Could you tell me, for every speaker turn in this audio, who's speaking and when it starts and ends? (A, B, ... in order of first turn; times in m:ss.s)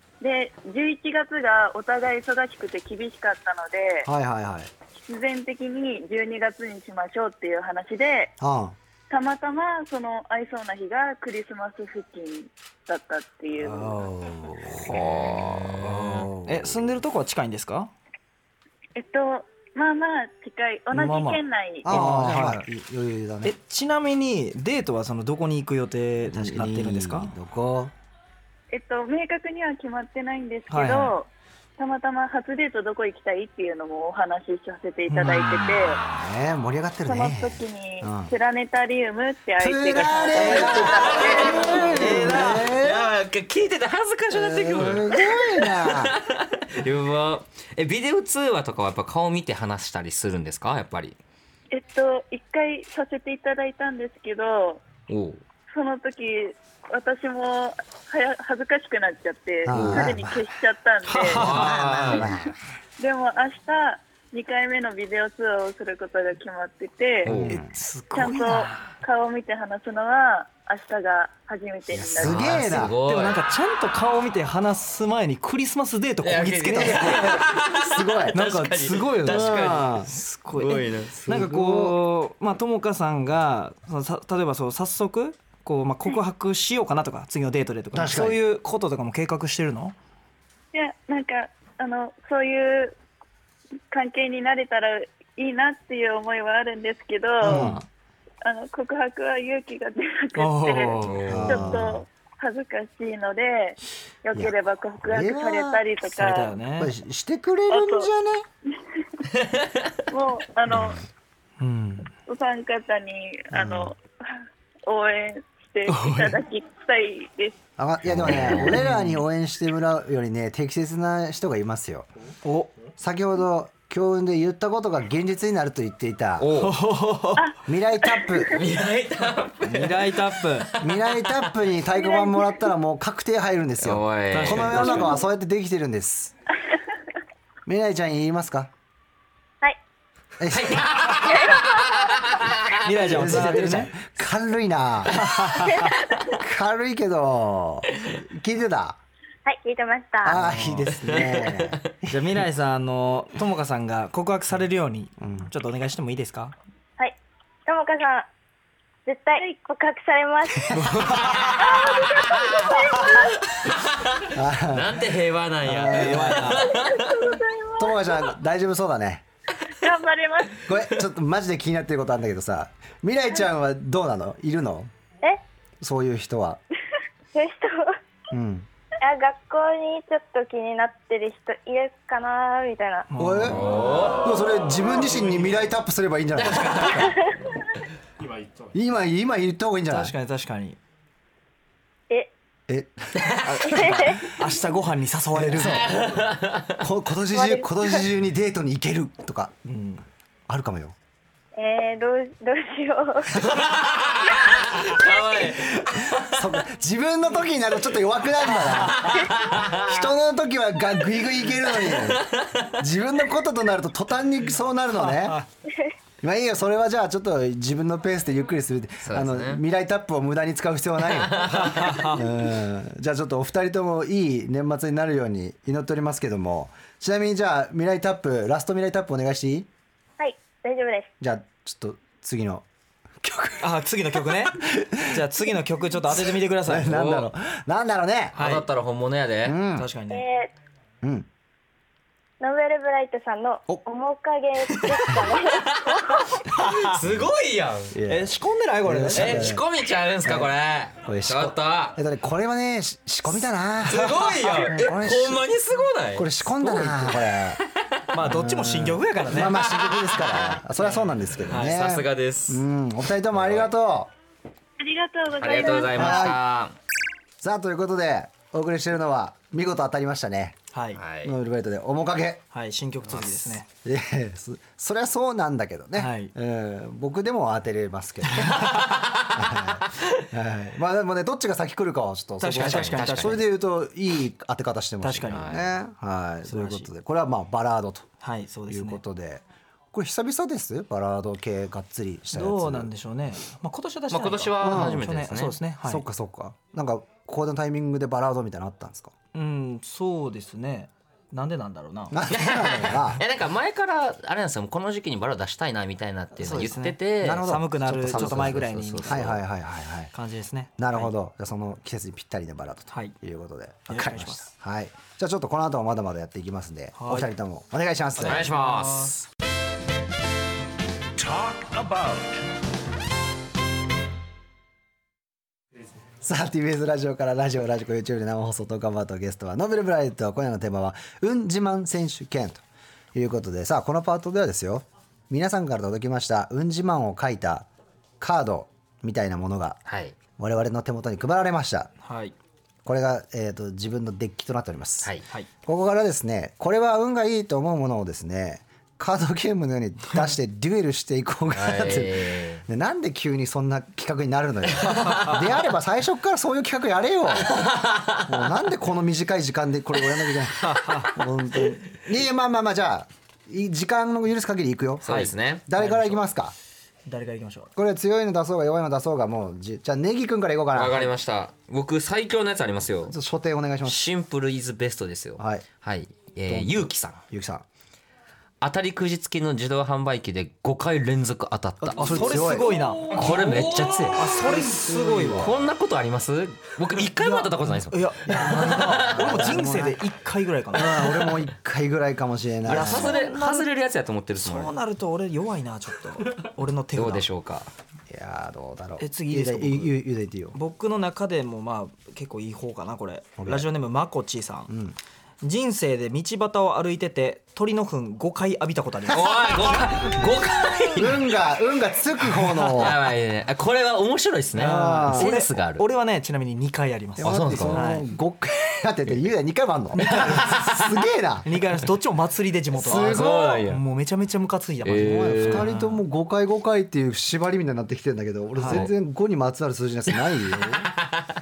0:00.2-0:04.1 A
0:04.0-0:04.7 B
0:04.9-0:08.3 A
0:08.4-0:08.8 B
0:09.1-0:14.1 A
0:13.6-0:17.0 B
0:14.7-0:17.9 C
0:14.9-0:16.3 D
0:19.0-0:21.9 A
0:21.0-0:21.4 C
0:21.8-0:23.6 B
0:21.9-0:22.7 C
0:23.4-0:27.4 C
0:26.3-0:27.9 B
0:28.7-0:36.0 A
0:30.7-0:31.2 C
0:35.1-0:35.4 C
0:35.3-0:38.3 B
0:37.1-0:41.6 A
0:39.6-0:43.1 B
0:40.3-0:42.7 C
0:40.6-0:51.2 D
0:44.3-0:46.2 B
0:51.7-0:54.8 A
0:55.1-0:55.4 D
0:55.7-1:01.7 A
0:59.7-1:00.4 B
0:59.7-1:00.2 D
1:01.0-1:02.2 C
1:01.3-1:02.5 D
1:01.4-1:02.6 B
1:03.0-1:07.4 A
1:07.2-1:07.6 D
1:07.2-1:07.8 B
1:07.5-1:08.9 C
1:08.1-1:12.6 A
1:11.9-1:13.0 B
1:12.2-1:13.4 D
1:12.6-1:17.6 C
1:16.2-1:21.2 D
1:16.7-1:20.1 B
1:18.3-1:30.0 C
1:21.2-1:22.0 B
1:27.9-1:28.4 B
1:30.7-1:33.0 A
1:33.9-1:37.7 A
1:37.4-1:37.8 B
1:37.4-1:37.8 C
1:38.4-1:46.6 A
1:40.4-1:41.3 C
1:41.0-1:41.8 D
1:41.3-1:42.0 B
1:44.3-1:45.8 B
1:46.1-1:46.9 C
1:46.8-1:48.4 B
1:47.7-1:48.1 A
1:48.9-1:49.2 A
1:49.4-1:49.9 D
1:50.1-1:51.0 A
1:50.7-1:51.0 B
1:51.6-1:52.1 C
1:52.3-1:57.6 A
1:53.5-1:53.9 B
1:55.9-1:56.4 C
1:57.8-2:02.1 B
1:58.2-1:58.8 D
1:58.6-1:59.2 C
2:02.4-2:02.8 C
2:03.0-2:06.5 B
2:06.4-2:06.8 D
2:06.6-2:07.5 C
2:07.4-2:08.5 A
2:07.7-2:08.6 B
2:08.5-2:11.5 D
2:09.6-2:10.7 C
2:10.8-2:16.3 B
2:12.1-2:12.5 A
2:13.8-2:15.0 D
2:14.3-2:15.2 C
2:17.7-2:18.7 B
2:20.4-2:21.2 B
2:20.5-2:23.6 D
2:21.3-2:21.8 E
2:22.8-2:23.9 C
2:23.1-2:25.3 B
2:25.1-2:26.0 C
2:26.3-2:29.0 B
2:29.5-2:30.4 E
2:30.2-2:32.3 B
2:30.4-2:31.2 C
2:31.0-2:31.7 D
2:32.1-2:36.6 C
2:35.2-2:35.5 B
2:37.0-2:38.3 E
2:39.1-2:40.8 E
2:40.7-2:41.6 C
2:41.2-2:47.4 D
2:41.7-2:43.2 E
2:41.8-2:43.3 A
2:44.3-2:45.1 B
2:45.6-2:46.6 B
2:45.7-2:46.8 C
2:46.6-2:48.3 A
2:47.8-2:49.2 B
2:49.8-2:50.7 A
2:50.6-2:54.9 B
2:55.8-2:56.6 B
2:57.3-2:58.0 E
2:58.3-2:58.7 B
2:59.0-3:03.1 E
3:03.1-3:03.7 C
3:03.2-3:07.2 B
3:03.4-3:04.2 D
3:06.4-3:07.0 D
3:08.7-3:10.1 B
3:09.9-3:10.8 C
3:12.7-3:13.3 B
3:13.4-3:16.0 C
3:13.6-3:14.3 E
3:15.3-3:16.2 B
3:15.6-3:16.8 D
3:16.8-3:19.6 B
3:17.3-3:18.0 E
3:19.7-3:20.0 C
3:20.5-3:21.0 B
3:21.6-3:23.5 E
3:23.4-3:26.6 D
3:26.1-3:35.4 B
3:28.9-3:30.0 D
3:31.9-3:32.7 D
3:35.0-3:35.5 C
3:36.2-3:49.7 B
3:39.0-3:39.6 D
3:41.1-3:42.0 D
3:41.4-3:42.2 C
3:50.2-3:51.1 E
3:51.2-3:52.6 B
3:53.2-3:55.3 B
3:53.6-3:57.0 C
3:56.2-3:58.4 B
3:56.8-3:57.3 D
3:58.4-3:59.6 D
3:58.4-3:58.7 C
3:59.4-3:59.9 B
3:59.7-4:00.2 C
4:00.1-4:00.5 E
4:01.0-4:01.3 B
4:02.4-4:06.3 E
4:05.5-4:08.0 D
4:06.5-4:07.0 C
4:07.0-4:07.3 B
4:07.9-4:09.6 B
4:08.1-4:09.6 C
4:09.1-4:12.0 D
4:10.2-4:15.4 B
4:13.8-4:16.3 D
4:13.9-4:14.9 C
4:16.2-4:17.6 B
4:16.6-4:17.2 C
4:17.6-4:18.0 D
4:18.1-4:19.6 C
4:18.2-4:24.1 B
4:19.3-4:20.6 D
4:21.5-4:22.6 D
4:21.5-4:21.8 C
4:23.4-4:23.7 D
4:24.8-4:26.3 A
4:25.4-4:26.8 D
4:25.9-4:26.4 B
4:27.4-4:30.6 B
4:30.7-4:31.0 C
4:31.0-4:31.4 D
4:31.2-4:32.4 B
4:32.5-4:33.7 C
4:33.1-4:33.6 D
4:33.8-4:48.1 B
4:36.0-4:36.3 C
4:38.3-4:38.6 C
4:38.6-4:39.6 D
4:42.4-4:43.4 C
4:42.6-4:43.4 D
4:45.0-4:45.6 C
4:45.3-4:45.7 D
4:46.5-4:46.9 C
4:48.2-4:49.0 C
4:48.7-4:52.9 B
4:52.3-4:56.0 C
4:54.1-4:55.6 D
4:54.6-4:55.1 B
4:55.8-4:59.1 B
4:59.3-5:02.2 C
5:02.1-5:03.2 B
5:02.3-5:07.5 D
5:06.4-5:09.4 C
5:07.2-5:10.1 B
5:08.0-5:09.4 D
5:10.1-5:11.1 C
5:10.8-5:18.5 B
5:13.9-5:14.5 C
5:17.0-5:17.3 C
5:18.2-5:19.2 C
5:18.2-5:19.2 D
5:26.2-5:32.6 B
5:33.1-5:37.7 B
5:38.2-5:39.8 B
5:39.9-5:40.2 D
5:40.4-5:41.9 B
5:42.0-5:42.4 C
5:42.8-5:45.1 B
5:45.6-5:57.7 B
5:51.5-5:52.6 D
5:54.8-5:55.4 C
5:54.9-5:55.3 D
5:57.4-5:58.5 D
5:58.2-6:06.6 B
6:00.6-6:01.2 C
6:05.0-6:05.7 D
6:05.2-6:06.2 C
6:07.1-6:07.7 C
6:07.8-6:11.1 B
6:10.8-6:13.2 D
6:13.1-6:14.0 B
6:13.8-6:17.2 D
6:15.4-6:15.7 B
6:16.5-6:17.6 B
6:18.6-6:24.5 D
6:21.8-6:25.6 B
6:22.0-6:23.5 C
6:24.1-6:25.5 C
6:25.4-6:29.7 D
6:27.0-6:31.3 C
6:28.3-6:30.0 B
6:30.7-6:33.2 B
6:32.7-6:33.7 C
6:32.7-6:34.8 D
6:34.4-6:37.3 C
6:36.9-6:37.7 D
6:38.1-6:40.6 B
6:39.0-6:40.0 C
6:40.5-6:44.7 C
6:43.4-6:43.7 B
6:44.7-6:45.0 B
6:45.4-6:49.8 C
6:49.1-6:51.4 D
6:51.0-6:53.0 B
6:52.6-6:55.9 D
6:54.6-6:55.3 B
6:54.6-6:58.0 C
6:57.2-7:01.5 B
6:57.2-6:58.0 D
7:00.0-7:00.7 C
7:00.2-7:00.8 D
7:01.4-7:06.0 C
7:02.8-7:03.7 B
7:02.8-7:03.8 D
7:04.8-7:05.7 D
7:05.0-7:10.9 B
7:08.6-7:08.9 C
7:11.0-7:11.2 D